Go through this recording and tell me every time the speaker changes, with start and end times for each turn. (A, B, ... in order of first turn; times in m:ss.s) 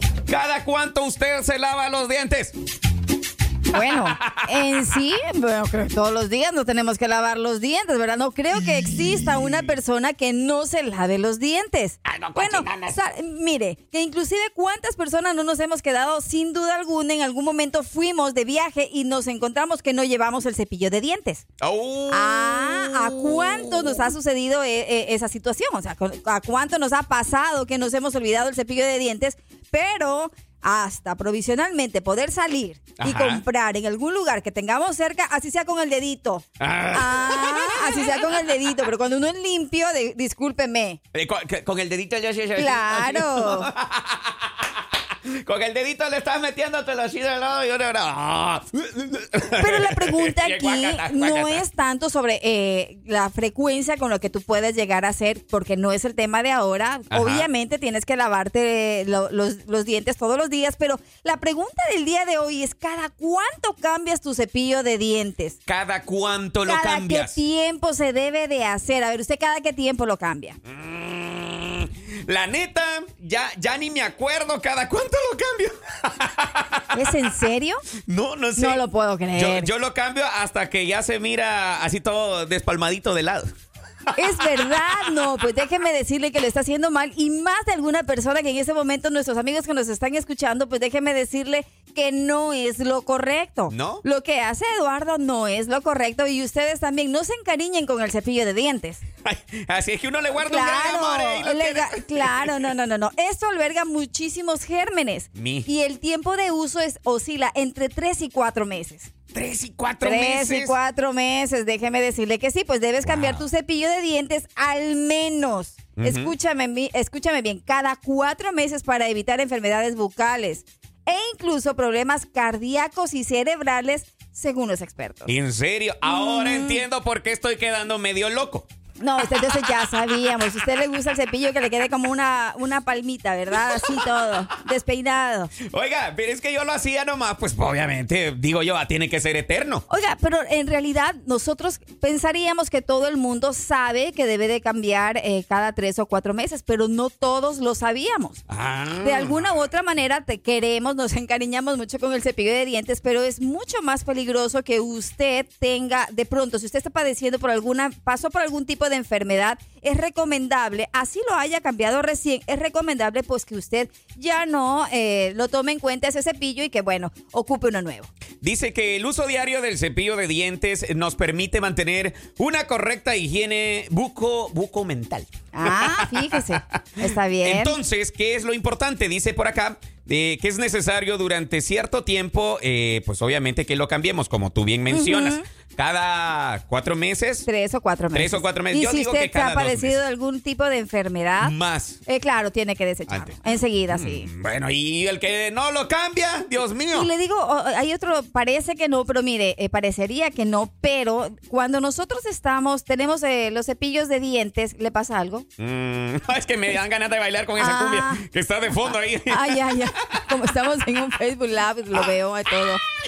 0:00.3-0:02.5 A
0:03.7-0:21.4 B
0:03.8-0:04.7 A
0:12.0-0:13.0 A
0:21.6-0:24.0 A
0:22.1-0:41.0 B
0:33.0-0:33.4 A
0:36.6-0:38.2 A
0:41.1-0:44.7 A
0:42.6-0:43.7 B
0:45.3-0:51.6 A
0:49.5-1:05.6 B
0:57.1-0:57.5 A
1:05.7-1:07.4 A
1:06.6-1:10.6 B
1:10.7-1:16.8 A
1:16.9-1:17.8 B
1:18.0-1:23.5 A
1:18.6-1:19.7 B
1:24.1-1:39.0 B
1:33.7-1:34.0 A
1:39.2-1:42.6 A
1:40.4-1:49.1 B
1:45.3-1:45.7 A
1:49.3-1:50.8 A
1:50.0-2:05.3 B
1:53.0-1:53.4 A
1:56.0-1:56.3 A
2:05.3-2:08.7 A
2:06.0-2:06.8 B
2:09.0-2:15.5 B
2:15.7-2:19.8 A
2:19.9-2:28.4 B
2:28.5-2:29.4 A
2:29.0-2:48.1 B
2:48.4-2:56.1 A
2:55.5-2:57.8 B
2:57.4-3:07.5 A
3:04.9-3:05.4 B
3:07.4-3:11.5 B
3:08.1-3:10.0 A
3:11.4-3:12.0 A
3:12.1-3:14.3 B
3:13.1-3:13.3 A
3:13.9-3:17.1 A
3:16.9-3:25.5 B
3:25.6-3:29.8 A
3:27.6-3:28.2 B
3:29.3-3:32.8 B